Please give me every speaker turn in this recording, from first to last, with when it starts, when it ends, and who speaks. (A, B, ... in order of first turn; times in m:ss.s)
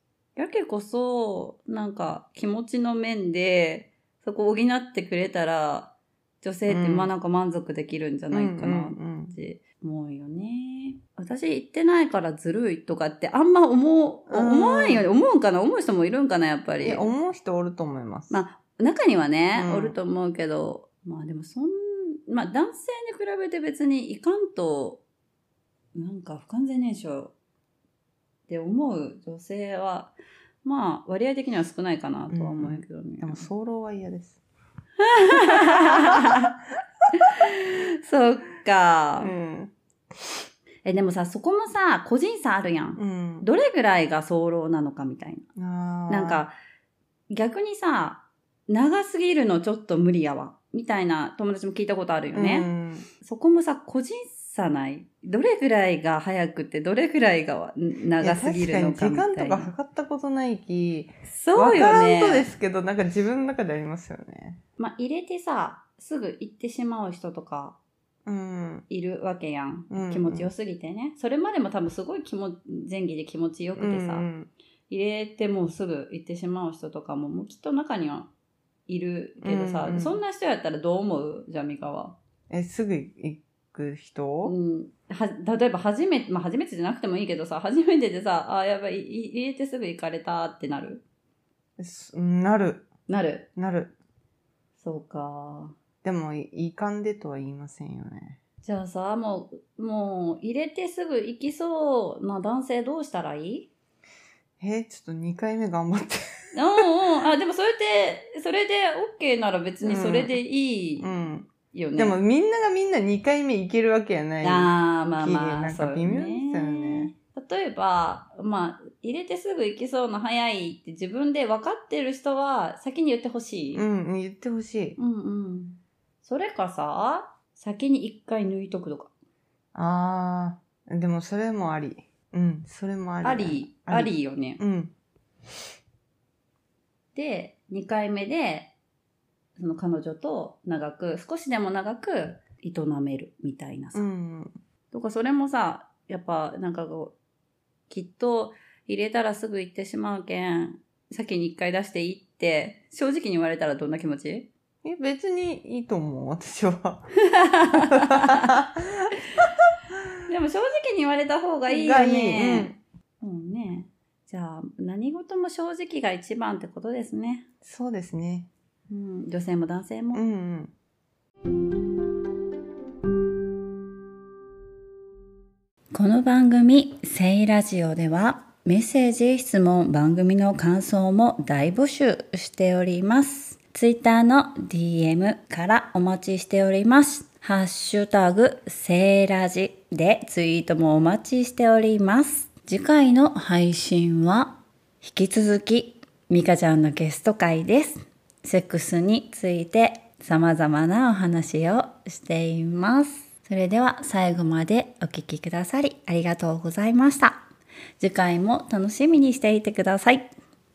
0:00.4-0:17.1 A
0:06.7-0:07.1 B
0:08.3-0:09.4 B
0:14.3-0:15.1 B
0:16.8-0:18.4 B
0:18.3-0:25.0 A
0:19.5-0:20.0 B
0:25.9-0:27.3 A
0:28.5-0:33.5 A
0:32.3-0:34.4 B
0:35.0-0:36.5 A
0:37.2-0:39.3 A
0:39.2-0:39.7 B
0:40.8-0:45.4 A
0:43.0-0:43.5 B
0:45.6-0:46.4 B
0:46.1-0:46.5 A
0:47.3-0:52.7 A
0:52.3-0:53.1 B
0:53.2-0:59.7 A
0:58.2-1:04.6 B
1:01.3-1:02.5 A
1:04.8-1:07.8 A
1:08.2-1:08.8 B
1:08.9-1:14.3 A
1:09.9-1:10.5 B
1:13.8-1:14.5 B
1:14.9-1:18.3 A
1:18.9-1:22.2 A
1:19.4-1:20.2 B
1:22.5-1:24.5 B
1:24.4-1:31.0 A
1:31.8-1:32.9 B
1:33.1-1:33.5 A
1:33.6-1:33.9 B
1:34.8-1:35.7 A
1:36.0-1:38.4 B
1:38.6-1:43.7 A
1:44.6-1:46.8 B
1:46.5-1:51.1 A
1:49.8-1:50.3 B
1:51.0-1:57.1 B
1:51.6-1:52.2 A
1:54.4-2:03.8 A
2:03.7-2:05.0 B
2:05.0-2:09.1 A
2:09.7-2:14.9 B
2:13.2-2:14.6 A
2:17.1-2:18.7 A
2:19.6-2:24.0 A
2:23.9-2:24.5 B
2:24.9-2:27.2 A
2:27.9-2:34.5 A
2:34.8-2:37.1 B
2:37.4-2:38.5 A
2:37.9-2:39.1 B
2:40.3-2:47.4 A
2:41.7-2:42.8 B
2:47.6-2:48.5 B
2:48.9-2:50.2 A
2:50.1-2:50.7 B
2:55.9-3:27.4 A
3:28.0-3:30.3 A